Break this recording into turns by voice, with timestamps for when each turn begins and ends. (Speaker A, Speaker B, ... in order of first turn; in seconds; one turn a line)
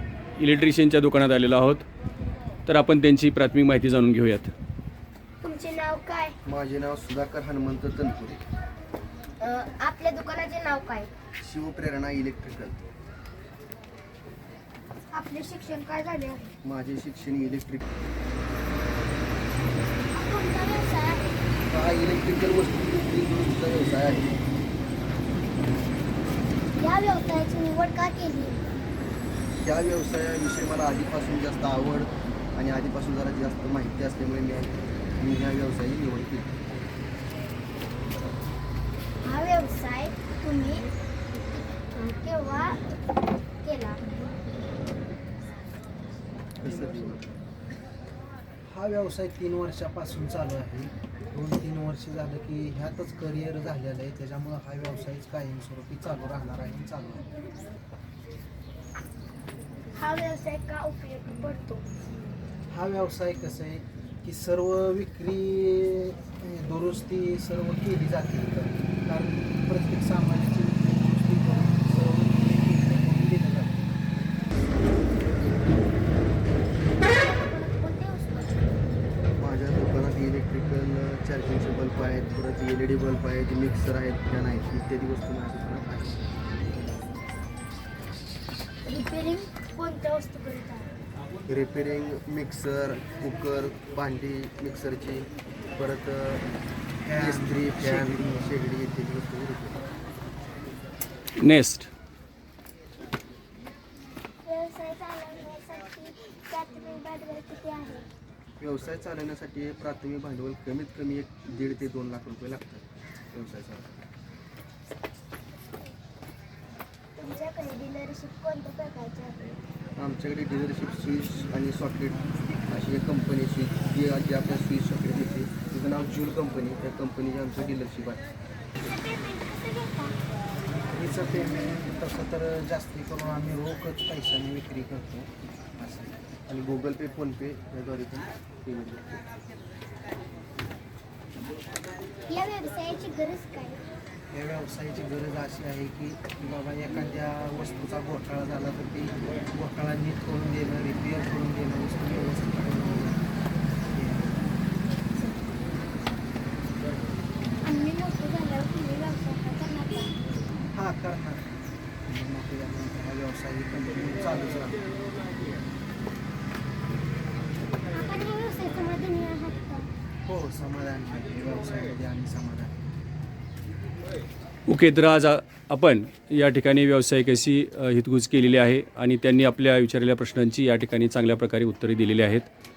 Speaker A: 0.4-1.9
Speaker A: 2.7-4.5
Speaker B: 5.4-6.3
Speaker C: 6.5-8.4
Speaker B: 9.4-11.1
Speaker C: 11.4-12.8
Speaker B: 15.1-16.5
Speaker C: 16.6-17.9
Speaker B: 20.1-21.4
Speaker C: 21.7-24.4
Speaker B: 26.8-28.6
Speaker C: 29.6-36.5
Speaker B: 39.2-40.9
Speaker B: 41.8-42.8
Speaker B: 43.6-44.0
Speaker C: 46.6-47.3
Speaker D: 48.7-57.3
Speaker B: 60.0-61.9
Speaker D: 62.7-74.0
Speaker B: 77.0-78.8
Speaker C: 79.4-86.2
Speaker B: 88.8-90.9
Speaker C: 91.5-96.5
Speaker D: 97.0-98.5
Speaker C: 97.2-99.8
Speaker A: 101.4-101.9
Speaker B: 104.5-108.1
Speaker C: 108.6-114.0
Speaker B: 117.2-119.5
Speaker C: 120.0-128.3
Speaker B: 128.8-130.2
Speaker D: 130.7-136.1
Speaker C: 136.5-139.2
Speaker B: 142.3-143.8
Speaker D: 144.3-153.2
Speaker D: 153.9-154.5
Speaker B: 157.6-160.1
Speaker D: 160.7-161.4
Speaker D: 162.1-164.8
Speaker B: 167.9-169.9
Speaker D: 170.3-172.8
Speaker A: 174.7-182.5